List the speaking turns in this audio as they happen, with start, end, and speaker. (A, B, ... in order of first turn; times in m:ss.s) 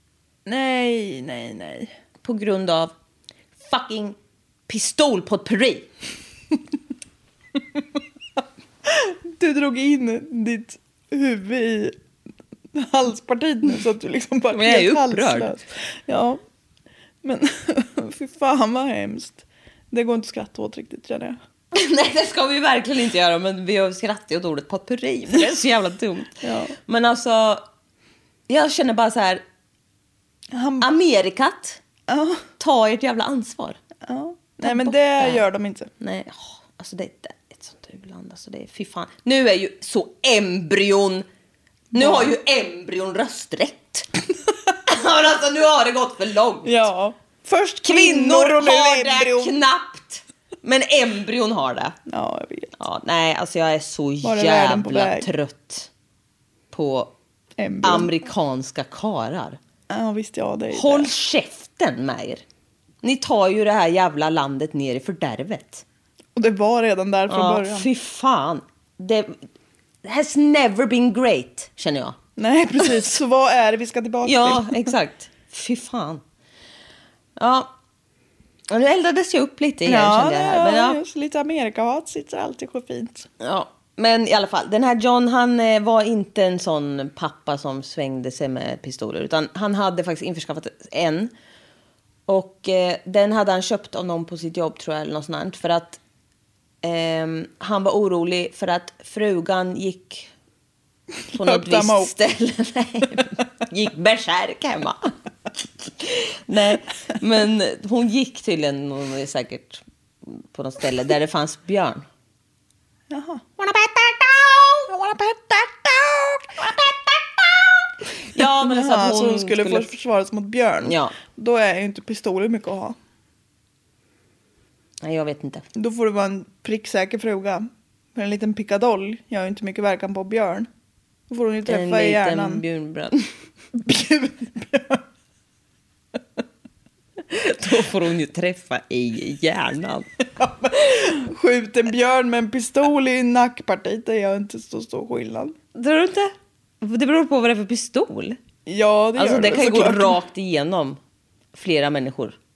0:00.5-0:01.9 A
0:02.2-0:02.9 B
0:03.7-0:04.2 B
0:04.7-0:05.9 B
0:08.8-0:12.0 A
0:12.7-0:16.4 A
0:14.5-0:15.5 B
0:17.2-0:21.4 A
0:21.7-0:27.6 B
0:26.4-0:26.8 A
0:28.5-0:29.4 B
0:30.5-0:30.9 A
0:30.8-0:31.8 B
0:32.1-0:32.5 A
0:32.6-0:33.8 B
0:34.0-0:35.9 A
0:34.6-0:35.4 B
0:36.0-0:41.3 B
0:41.9-0:42.3 A
0:41.9-0:44.1 B
0:44.9-0:46.9 B
0:46.6-0:49.5 A
0:47.8-0:52.0 B
0:52.1-0:52.8 A
0:52.8-0:55.9 B
0:54.2-0:55.3 A
0:56.7-0:57.1 B
0:57.6-0:58.1 A
0:57.8-0:59.6 B
0:59.9-1:01.1 A
1:00.7-1:02.4 B
1:03.0-1:05.8 B
1:06.4-1:07.9 A
1:07.3-1:09.4 B
1:10.0-1:12.2 B
1:12.4-1:14.9 A
1:14.2-1:16.2 B
1:17.4-1:17.7 B
1:18.7-1:21.0 B
1:19.8-1:23.3 A
1:23.4-1:31.3 B
1:32.3-1:36.0 B
1:36.8-1:40.3 B
1:41.3-1:45.1 B
1:41.3-1:42.1 A
1:45.9-1:52.1 B
1:53.1-1:53.4 A
1:53.6-1:54.9 B
1:54.9-1:56.5 A
1:56.6-1:57.7 B
1:58.3-1:59.9 B
1:58.4-2:03.0 A
2:00.8-2:01.2 B
2:05.0-2:05.6 B
2:05.8-2:10.7 A
2:11.3-2:12.6 A
2:11.7-2:13.3 B
2:13.7-2:15.0 A
2:17.3-2:20.1 B
2:20.4-2:25.6 A
2:25.8-2:28.4 B
2:28.7-2:30.2 A
2:29.2-2:31.0 B
2:31.5-2:32.4 B